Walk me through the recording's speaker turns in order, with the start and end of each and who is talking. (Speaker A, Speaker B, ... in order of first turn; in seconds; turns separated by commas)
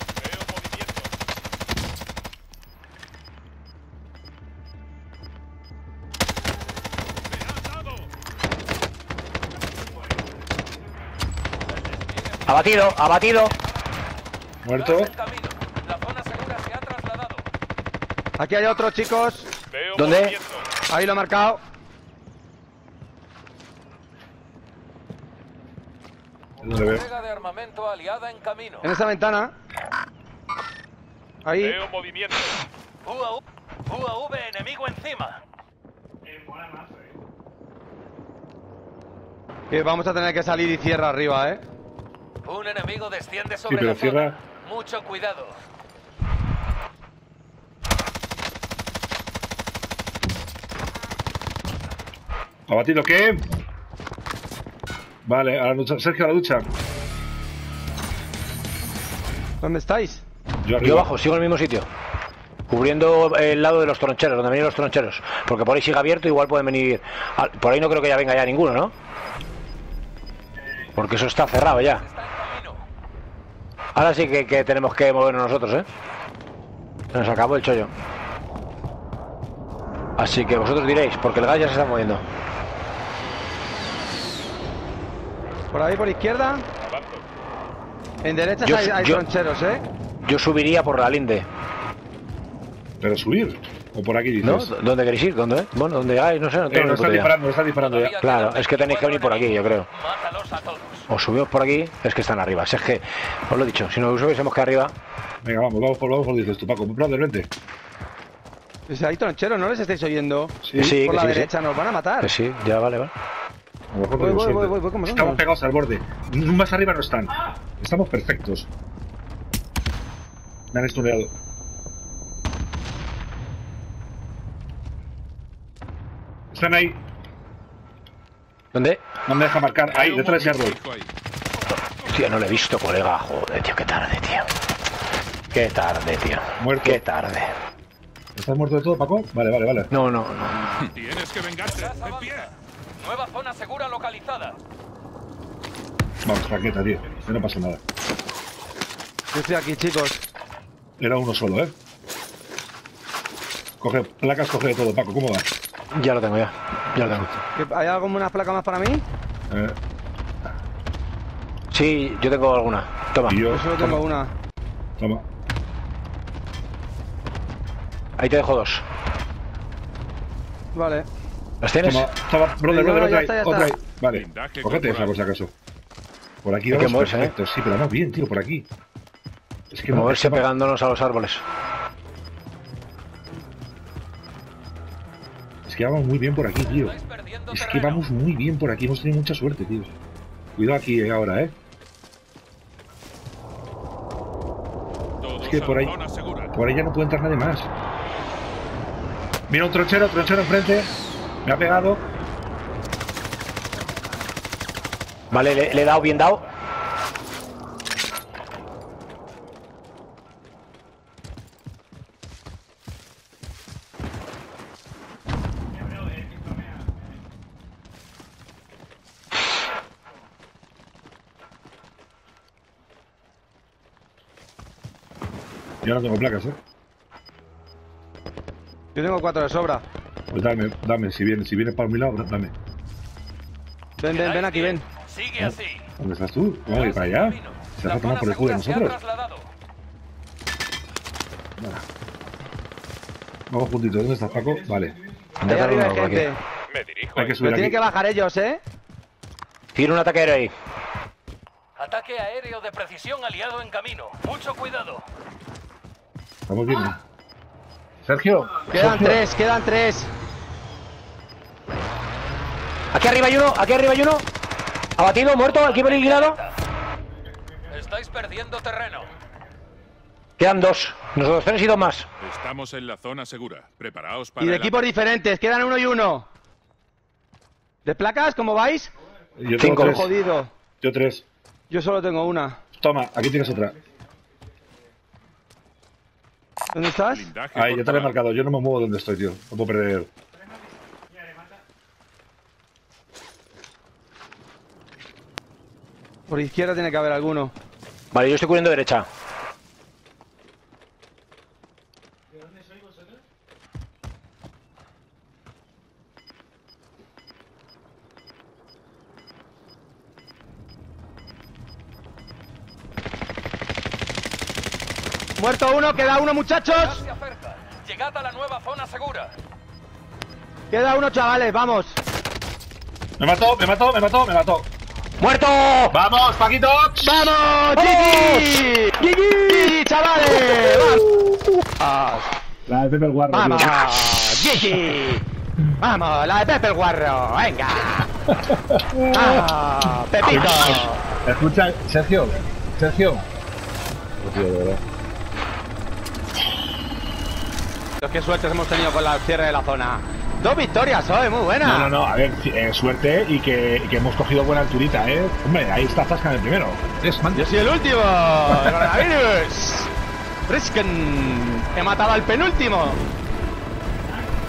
Speaker A: 0.2-1.1, Speaker A: 7.3-8.0, Speaker B: 11.8-13.1, Speaker C: 12.4-13.5, Speaker D: 14.6-15.1, Speaker B: 14.7-17.5, Speaker E: 18.4-19.5, Speaker A: 19.7-20.7, Speaker C: 19.9-20.4, Speaker E: 20.9-21.6, Speaker D: 26.6-27.1, Speaker B: 26.8-28.9, Speaker E: 28.8-29.5, Speaker E: 31.4-31.8, Speaker A: 31.6-32.5, Speaker B: 33.0-35.4, Speaker E: 39.7-41.6, Speaker B: 42.4-45.6, Speaker D: 43.7-44.4, Speaker D: 52.7-53.5, Speaker D: 55.2-56.7, Speaker E: 59.6-60.2, Speaker D: 60.6-61.1, Speaker C: 60.8-61.9, Speaker C: 62.7-68.9, Speaker C: 70.9-72.0, Speaker B: 71.7-72.8, Speaker C: 73.9-75.9, Speaker C: 77.1-77.9, Speaker C: 80.2-82.2, Speaker E: 85.7-86.6, Speaker A: 86.8-87.2, Speaker E: 88.2-89.8, Speaker C: 88.6-89.2, Speaker C: 90.2-91.5, Speaker D: 93.0-94.7, Speaker C: 94.4-97.3, Speaker D: 96.7-98.2, Speaker B: 97.8-101.1, Speaker C: 98.2-99.9, Speaker C: 101.1-104.9, Speaker D: 105.4-107.5, Speaker E: 108.9-112.3, Speaker D: 110.6-110.9, Speaker C: 110.8-111.5, Speaker C: 112.2-113.1, Speaker D: 113.9-118.7, Speaker E: 114.2-115.4, Speaker D: 120.7-121.3, Speaker D: 126.5-127.0, Speaker C: 128.7-129.0, Speaker D: 129.2-130.8, Speaker A: 129.9-131.1, Speaker C: 132.1-134.5, Speaker C: 135.5-137.5, Speaker D: 136.6-137.0, Speaker D: 138.3-139.9, Speaker C: 139.9-140.8, Speaker A: 140.7-142.5, Speaker B: 141.7-144.6, Speaker D: 146.2-147.8, Speaker E: 149.3-150.2, Speaker D: 151.0-151.7, Speaker D: 153.8-155.5, Speaker C: 155.9-157.3, Speaker D: 157.0-157.3, Speaker E: 157.6-159.0, Speaker D: 159.5-159.8, Speaker C: 161.7-163.4, Speaker D: 163.2-164.0, Speaker E: 163.5-164.3, Speaker D: 165.0-165.2, Speaker C: 168.2-168.8, Speaker E: 170.7-171.1, Speaker C: 171.6-172.1, Speaker D: 171.8-175.5, Speaker E: 172.7-173.8, Speaker A: 174.1-175.1, Speaker D: 176.4-178.7, Speaker C: 176.7-177.3, Speaker D: 179.7-180.4, Speaker C: 179.9-181.4, Speaker D: 185.7-186.9, Speaker B: 186.7-188.0, Speaker D: 187.5-189.9, Speaker D: 190.6-191.5, Speaker A: 195.2-196.5, Speaker D: 195.4-195.9, Speaker D: 196.5-197.7, Speaker D: 199.5-200.9, Speaker D: 201.4-202.0, Speaker C: 205.3-206.4, Speaker D: 225.8-226.6, Speaker E: 228.9-229.8, Speaker D: 230.3-232.5, Speaker E: 234.0-234.8, Speaker B: 234.1-235.8, Speaker D: 235.4-239.0, Speaker B: 236.7-239.5, Speaker D: 241.6-241.8, Speaker D: 243.5-245.6, Speaker C: 245.4-246.3, Speaker E: 245.4-246.4, Speaker A: 246.7-247.3, Speaker D: 247.2-247.8, Speaker E: 247.4-248.6, Speaker C: 249.7-250.5, Speaker B: 251.8-255.0, Speaker D: 256.5-257.0, Speaker D: 258.0-259.2, Speaker E: 258.7-260.1, Speaker C: 262.9-264.2, Speaker C: 265.0-266.4, Speaker B: 265.6-266.5, Speaker B: 267.7-269.1, Speaker C: 270.4-272.1, Speaker A: 272.2-274.8, Speaker E: 274.4-276.3, Speaker E: 277.8-278.9, Speaker D: 279.4-280.1, Speaker E: 279.6-280.5, Speaker C: 279.6-280.0, Speaker D: 280.8-281.2, Speaker E: 281.7-282.6, Speaker D: 282.8-283.8, Speaker E: 286.7-287.3, Speaker A: 287.1-288.1, Speaker D: 287.5-290.1, Speaker E: 296.3-297.5, Speaker C: 298.1-299.1, Speaker E: 315.4-317.0, Speaker B: 316.7-319.3, Speaker E: 320.7-322.0, Speaker D: 323.2-324.7, Speaker C: 325.2-326.0, Speaker D: 325.9-327.1, Speaker E: 327.0-331.1, Speaker C: 327.7-329.8, Speaker C: 330.4-330.8, Speaker E: 331.8-332.3, Speaker D: 332.7-333.8, Speaker E: 333.3-335.2, Speaker E: 335.8-338.1, Speaker D: 338.3-339.5, Speaker E: 339.1-341.0, Speaker D: 340.2-343.2, Speaker D: 344.2-344.8, Speaker E: 348.0-351.9, Speaker D: 351.6-357.5, Speaker E: 357.3-359.9, Speaker D: 358.5-358.8, Speaker E: 360.5-363.0